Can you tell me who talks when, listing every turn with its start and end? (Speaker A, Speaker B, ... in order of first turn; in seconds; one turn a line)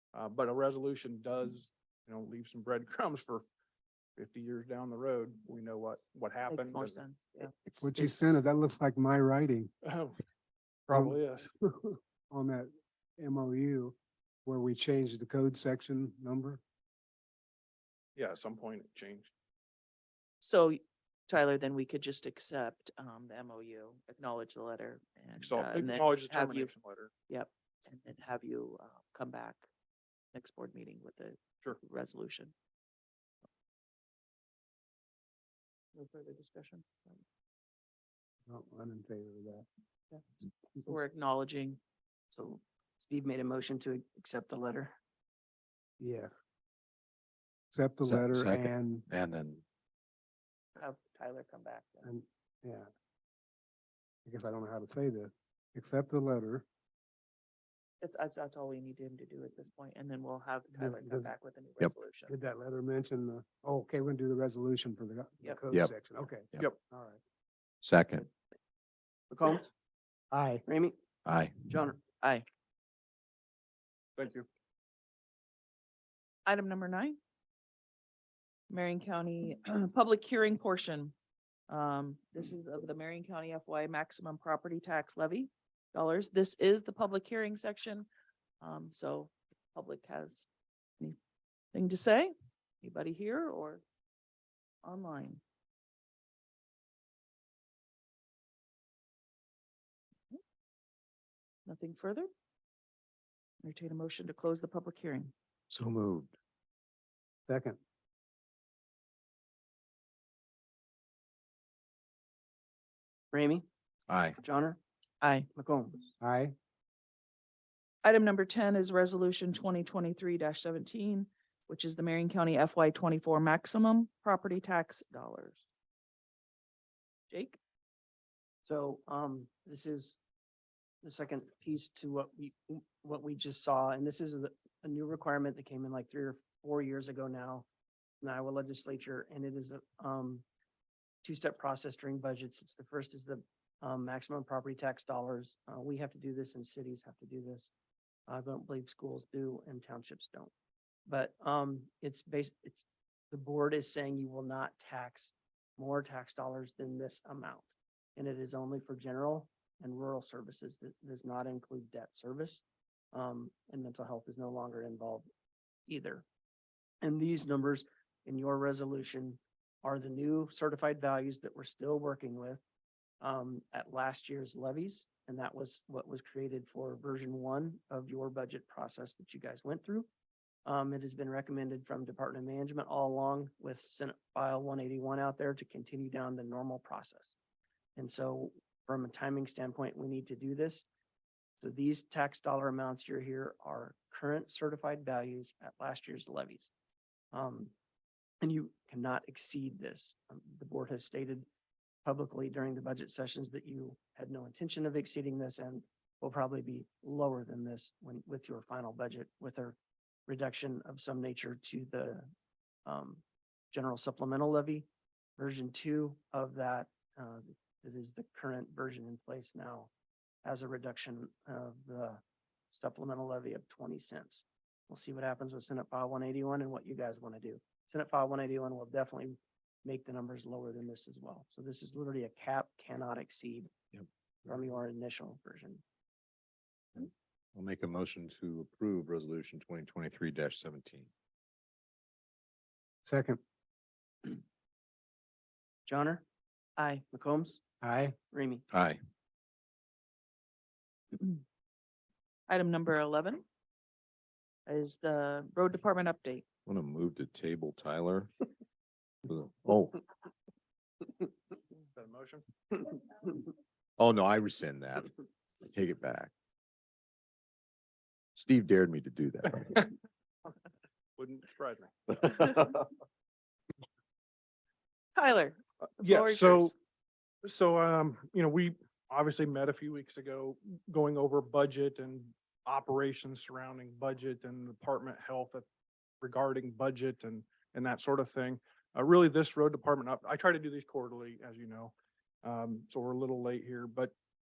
Speaker A: 0.1-3.4
Speaker A: 4.2-7.0
Speaker B: 6.5-7.5
Speaker C: 7.6-8.3
Speaker D: 7.8-9.7
Speaker A: 9.8-10.2
Speaker A: 10.9-11.5
Speaker D: 10.9-16.6
Speaker A: 18.1-19.3
Speaker B: 20.4-26.7
Speaker A: 25.4-27.1
Speaker B: 27.3-29.7
Speaker B: 30.3-32.5
Speaker B: 36.0-37.2
Speaker D: 38.5-39.7
Speaker B: 40.8-41.8
Speaker C: 42.3-45.0
Speaker D: 46.0-46.3
Speaker D: 47.7-49.1
Speaker E: 48.0-49.6
Speaker B: 50.8-52.1
Speaker D: 52.0-52.9
Speaker D: 54.2-56.6
Speaker B: 58.0-62.3
Speaker D: 60.8-61.3
Speaker D: 62.3-67.2
Speaker E: 67.8-68.3
Speaker C: 69.3-69.7
Speaker D: 70.3-70.6
Speaker C: 70.7-71.0
Speaker E: 71.2-71.7
Speaker C: 71.7-72.0
Speaker A: 74.2-74.5
Speaker B: 76.5-77.2
Speaker B: 78.7-81.1
Speaker B: 81.7-88.1
Speaker B: 88.6-90.5
Speaker B: 91.7-93.8
Speaker B: 94.8-95.4
Speaker B: 101.7-102.3
Speaker B: 103.6-105.3
Speaker E: 105.7-106.3
Speaker D: 107.5-107.8
Speaker C: 113.3-113.7
Speaker E: 114.1-114.4
Speaker C: 114.4-114.8
Speaker B: 115.2-115.5
Speaker C: 115.5-116.1
Speaker D: 116.2-116.5
Speaker B: 118.0-125.6
Speaker B: 127.3-127.6
Speaker C: 128.6-130.2
Speaker C: 131.0-137.7
Speaker C: 138.2-140.4
Speaker C: 141.2-147.7
Speaker C: 148.3-150.5
Speaker C: 151.1-165.3
Speaker C: 165.9-166.2
Speaker C: 167.0-172.6
Speaker C: 173.2-180.1
Speaker C: 180.7-187.4
Speaker C: 188.0-190.8
Speaker C: 191.6-196.7
Speaker C: 197.3-197.7
Speaker C: 198.4-201.5
Speaker C: 202.1-209.8
Speaker C: 210.3-212.3
Speaker C: 212.9-219.9
Speaker C: 220.4-233.7
Speaker C: 234.5-235.8
Speaker E: 237.0-241.1
Speaker D: 243.0-243.4
Speaker C: 245.9-246.2
Speaker B: 246.8-247.0
Speaker C: 247.1-247.6
Speaker D: 247.8-248.2
Speaker C: 248.3-248.7
Speaker E: 248.7-249.0
Speaker B: 251.1-251.4
Speaker B: 252.5-253.4
Speaker B: 254.7-256.4
Speaker E: 256.7-258.3
Speaker E: 259.2-260.0
Speaker A: 261.9-262.4
Speaker E: 264.0-266.3
Speaker E: 268.4-269.9
Speaker A: 271.2-272.3
Speaker B: 275.1-276.8
Speaker A: 276.0-276.7
Speaker A: 277.4-285.6
Speaker A: 286.2-294.1